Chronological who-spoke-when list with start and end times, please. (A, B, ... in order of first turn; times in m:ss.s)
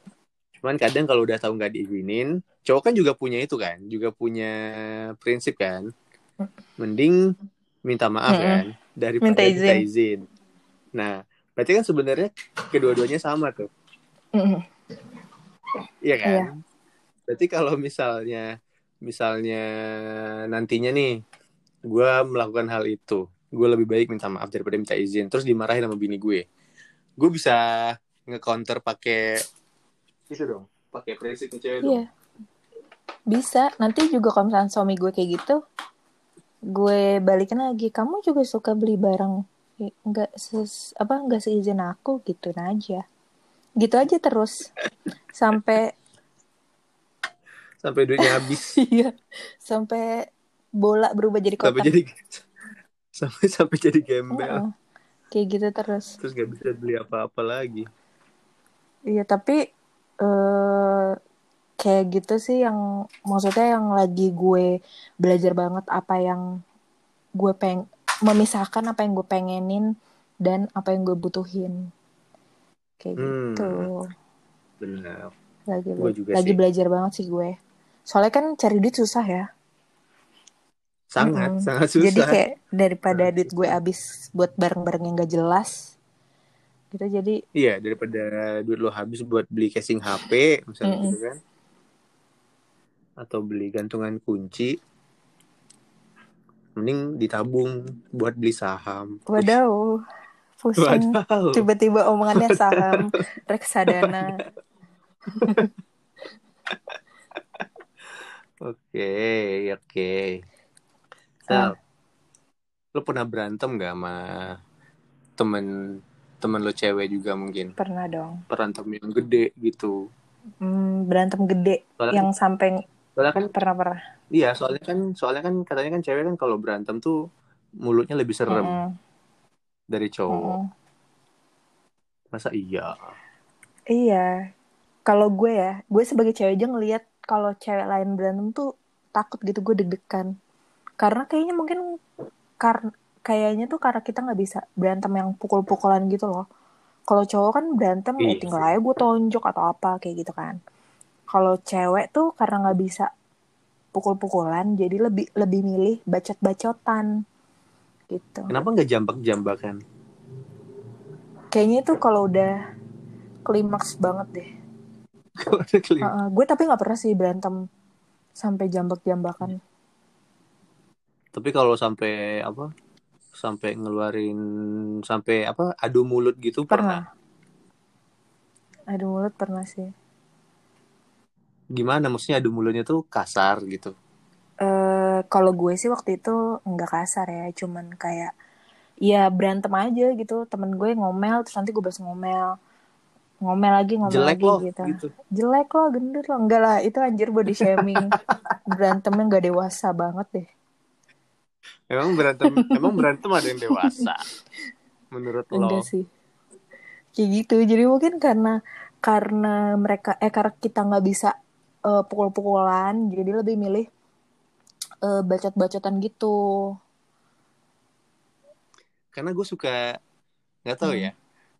0:00.6-0:04.6 A
0:05.2-0:05.8 A
0:06.8-0:07.2 A
0:07.8-0:10.2 A
0:08.3-0:08.6 B
0:09.2-0:09.8 B
0:11.0-0:13.7 A
0:14.4-0:14.6 B
0:16.0-0:16.5 A
0:17.3-0:18.5 A
0:19.1-0:19.6 A
0:20.5-0:21.1 A
0:21.9-0:26.4 A
0:27.2-0:29.3 A
0:30.3-0:32.0 A
0:33.3-0:35.6 B
0:36.7-0:43.0 B
0:43.8-0:44.5 B
0:45.4-0:45.9 B
0:47.8-0:48.8 A
0:48.2-0:49.1 B
0:49.6-0:50.1 B
0:50.8-0:51.9 B
0:51.6-0:52.4 A
0:53.2-0:54.6 A
0:54.3-0:54.7 B
0:55.3-0:56.2 B
0:56.2-0:57.9 A
0:59.1-0:59.6 B
1:00.2-1:01.1 B
1:01.8-1:04.7 B
1:05.2-1:06.4 B
1:07.4-1:09.9 B
1:10.4-1:11.8 B
1:13.0-1:14.0 B
1:13.2-1:13.9 A
1:14.8-1:15.3 A
1:15.7-1:17.5 B
1:16.0-1:16.6 A
1:18.1-1:19.4 B
1:21.1-1:22.4 A
1:21.2-1:25.9 B
1:23.1-1:23.8 A
1:26.9-1:27.4 B
1:27.6-1:31.4 A
1:30.8-1:31.2 B
1:33.2-1:34.8 A
1:36.8-1:39.5 A
1:39.3-1:39.9 B
1:40.6-1:44.3 B
1:40.8-1:41.6 A
1:42.4-1:43.0 A
1:46.7-1:47.0 A
1:48.6-1:50.4 A
1:51.5-1:51.8 A
1:53.0-1:54.2 A
1:55.4-1:55.7 A
1:56.4-1:57.8 A
1:57.8-1:58.4 B
1:58.5-2:00.0 A
2:00.6-2:02.8 B
2:02.0-2:02.3 A
2:03.2-2:03.5 A
2:03.5-2:04.0 B
2:04.3-2:07.2 A
2:07.8-2:08.8 A
2:08.5-2:08.9 B
2:09.9-2:10.6 A
2:10.3-2:10.6 B
2:12.3-2:13.1 A
2:13.9-2:14.3 B
2:15.1-2:18.6 B
2:19.2-2:20.3 B
2:21.0-2:21.8 B
2:22.6-2:26.4 B
2:27.1-2:30.6 B
2:28.2-2:28.7 A
2:31.3-2:33.1 B
2:33.9-2:37.1 B
2:38.1-2:38.5 B
2:38.5-2:39.8 A
2:41.5-2:42.5 B
2:43.5-2:44.5 B
2:45.4-2:46.1 A
2:46.0-2:47.6 B
2:48.4-2:49.6 B
2:51.3-2:52.7 A
2:53.4-2:54.4 A
2:55.1-2:57.0 A
2:56.7-2:57.0 B
2:58.9-2:59.9 B
3:01.8-3:03.9 A
3:04.6-3:08.3 B
3:09.1-3:12.5 B
3:13.4-3:18.2 B
3:14.1-3:15.1 A
3:17.6-3:18.5 A
3:18.7-3:20.5 B
3:21.9-3:24.2 A
3:22.7-3:23.0 B
3:23.6-3:24.0 B
3:25.1-3:25.9 A
3:25.5-3:26.1 B
3:27.2-3:31.3 B
3:31.9-3:33.8 B
3:35.0-3:36.4 B
3:39.1-3:39.8 A
3:40.7-3:41.1 A
3:40.8-3:41.1 B